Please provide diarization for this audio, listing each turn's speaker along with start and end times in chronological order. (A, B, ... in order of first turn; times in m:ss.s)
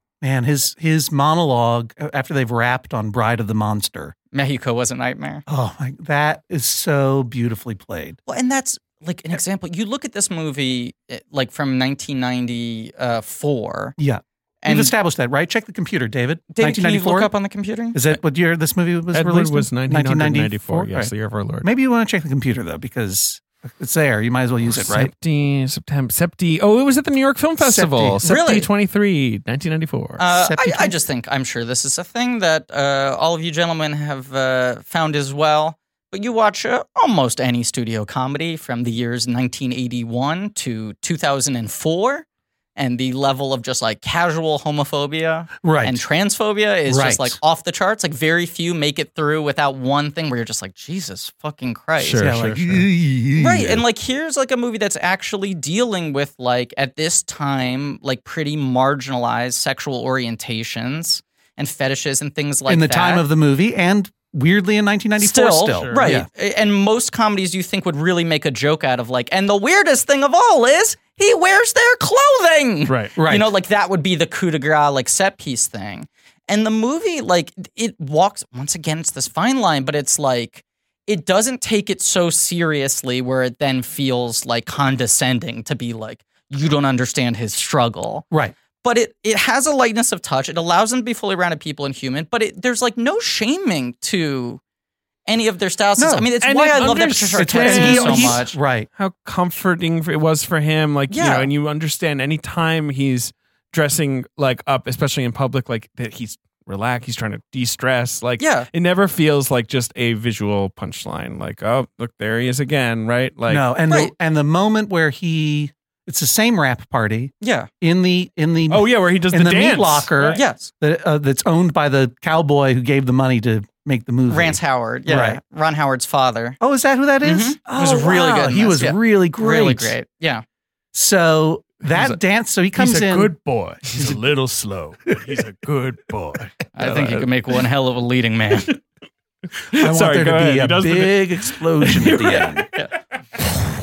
0:00.2-0:04.1 A
0:04.3-0:05.4 B
0:05.5-0:08.2 A
0:08.3-0:14.0 B
0:14.0-0:17.3 A
0:14.6-0:14.9 B
0:16.5-0:18.1 B
0:17.9-0:25.1 A
0:19.1-0:21.7 C
0:24.7-0:30.2 C
0:27.6-0:28.2 A
0:28.2-0:28.7 B
0:30.2-0:52.3 B
0:30.3-0:31.0 A
0:45.6-0:46.0 A
0:46.9-0:47.4 A
0:52.0-0:52.9 C
0:52.2-0:53.8 A
0:53.3-1:03.2 B
1:02.7-1:06.3 A
1:05.2-1:28.2 B
1:05.8-1:06.2 C
1:12.9-1:13.1 C
1:13.2-1:13.5 A
1:28.8-1:34.6 B
1:35.3-1:38.5 B
1:36.0-1:36.3 A
1:36.4-1:38.4 C
1:37.4-1:38.9 A
1:39.0-1:53.6 C
1:41.1-1:41.5 B
1:48.4-1:48.7 B
1:53.5-2:05.4 A
1:57.4-1:57.7 B
1:58.7-2:00.4 C
2:00.3-2:00.7 B
2:04.3-2:06.6 B
2:06.6-2:10.0 A
2:07.2-2:10.4 B
2:10.9-2:13.4 A
2:11.8-2:12.2 C
2:12.8-2:17.2 C
2:13.9-2:14.2 A
2:16.7-2:18.8 B
2:19.7-2:22.7 C
2:19.8-2:22.7 A